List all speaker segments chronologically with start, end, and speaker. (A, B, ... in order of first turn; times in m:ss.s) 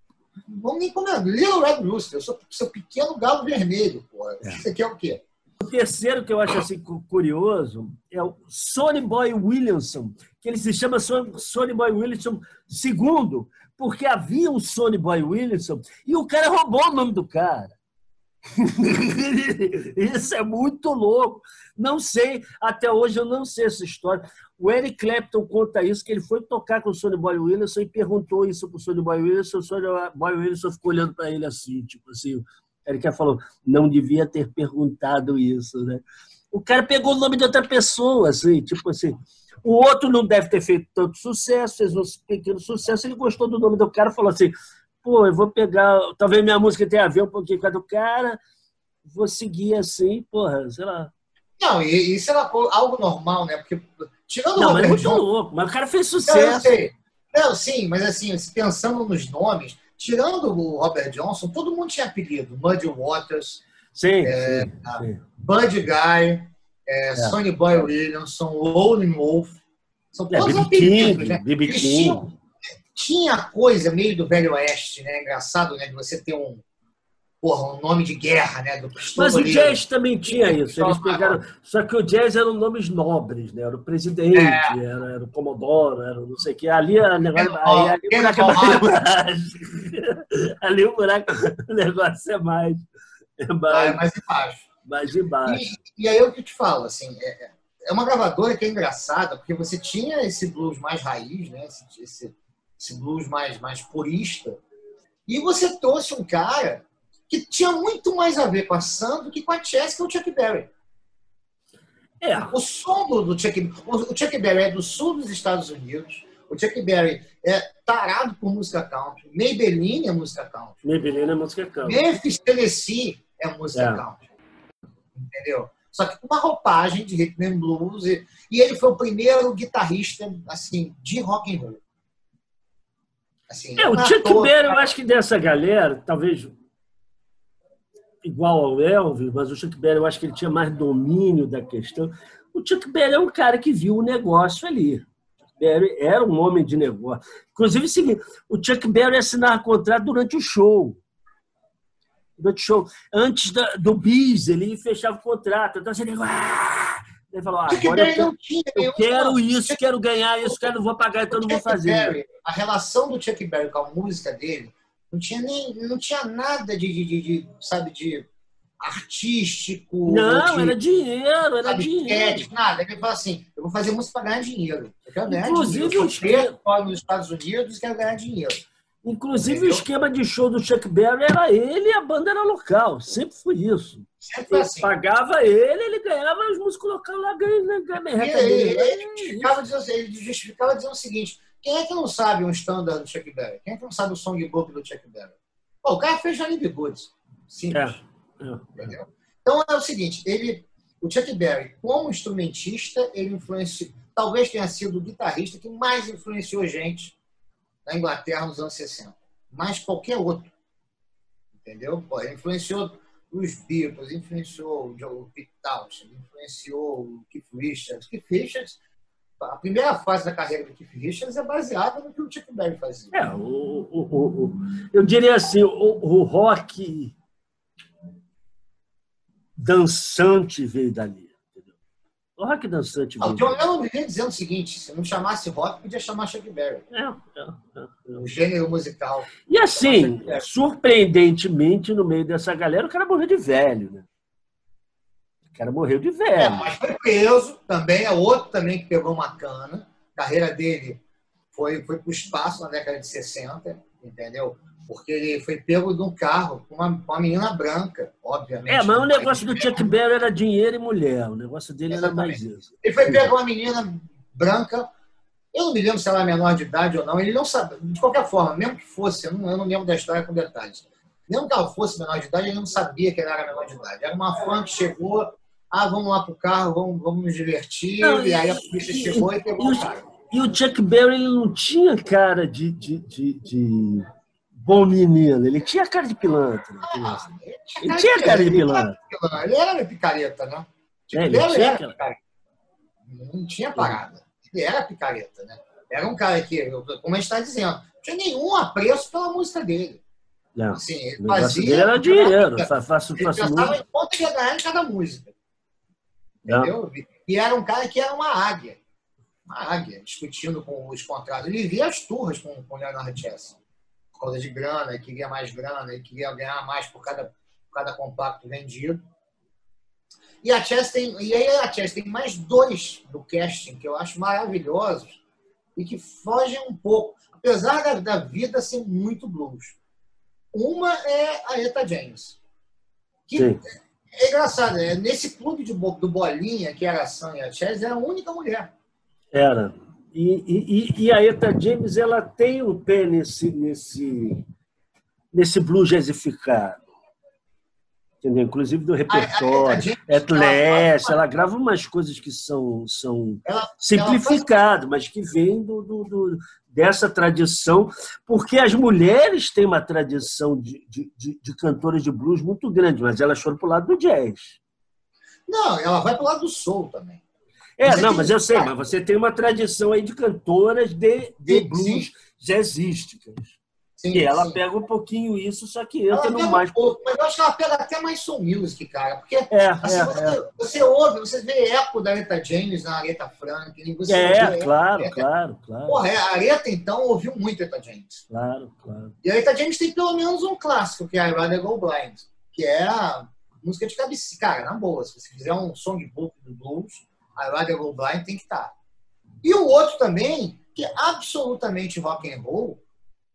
0:00.4-0:05.2 A
0:05.6-0:17.7 B
0:18.6-0:48.4 B
0:49.0-0:51.1 B
0:51.6-0:55.2 A
0:54.6-0:56.7 B
0:56.2-1:03.6 A
1:03.9-1:05.2 B
1:04.2-1:09.6 A
1:10.1-1:12.3 A
1:10.3-1:12.3 B
1:12.9-1:16.6 A
1:17.4-1:21.4 A
1:19.2-1:32.8 B
1:24.3-1:24.8 A
1:27.3-1:29.0 A
1:33.4-1:34.0 B
1:33.7-1:34.6 A
1:34.8-1:35.7 B
1:35.4-1:44.6 A
1:45.3-1:50.7 A
1:52.2-1:52.6 B
1:52.5-2:00.8 A
2:00.8-2:02.0 B
2:01.8-2:04.2 A
2:03.7-2:04.0 B
2:05.1-2:11.8 A
2:13.5-2:14.9 A
2:13.8-2:16.5 B
2:18.2-2:25.0 B
2:25.6-2:31.0 B
2:32.4-2:42.2 B
2:37.7-2:39.8 A
2:41.3-2:48.3 A
2:48.8-2:50.8 A
2:50.0-2:52.5 B
2:51.6-2:58.6 A
2:55.2-2:56.6 B
2:59.0-3:09.6 B
2:59.3-2:59.8 A
3:04.2-3:04.9 A
3:08.1-3:18.0 A
3:17.7-3:18.9 B
3:18.8-3:27.1 A
3:27.8-3:30.5 A
3:31.6-3:38.8 A
3:39.4-3:43.2 A
3:43.1-3:47.1 B
3:49.6-3:51.7 B
3:52.4-3:53.6 B
3:53.2-3:56.8 A
3:56.9-3:58.2 B
3:58.2-4:00.5 A
3:59.5-4:04.1 B
4:05.5-4:06.7 B
4:06.4-4:11.0 A
4:11.5-4:20.0 A
4:18.7-4:23.3 B
4:21.9-4:24.9 A
4:25.5-4:40.1 A
4:38.0-4:44.1 B
4:44.6-4:47.2 B
4:46.8-4:52.2 A
4:47.8-4:49.0 B
4:51.1-4:51.9 B
4:53.0-5:00.0 A
5:00.6-5:03.8 B
5:00.7-5:05.3 A
5:06.4-5:08.8 A
5:09.5-5:13.6 A
5:14.1-5:19.0 A
5:20.4-5:25.2 A
5:25.8-5:29.8 A
5:30.5-5:32.4 A
5:33.3-5:33.6 A
5:33.4-5:33.6 B
5:34.1-5:38.7 A
5:39.3-5:44.4 B
5:45.3-5:46.8 B
5:48.2-6:04.6 B
5:49.1-5:51.3 A
5:53.4-5:54.5 A
6:05.5-6:07.2 A
6:07.8-6:13.6 B
6:07.8-6:08.7 A
6:11.4-6:12.1 A
6:14.0-6:14.6 A
6:14.1-6:16.8 B
6:16.1-6:25.2 A
6:19.5-6:20.4 B
6:24.1-6:26.0 B
6:25.9-6:28.2 A
6:28.3-6:29.1 B
6:29.2-6:38.7 A
6:39.4-6:42.8 A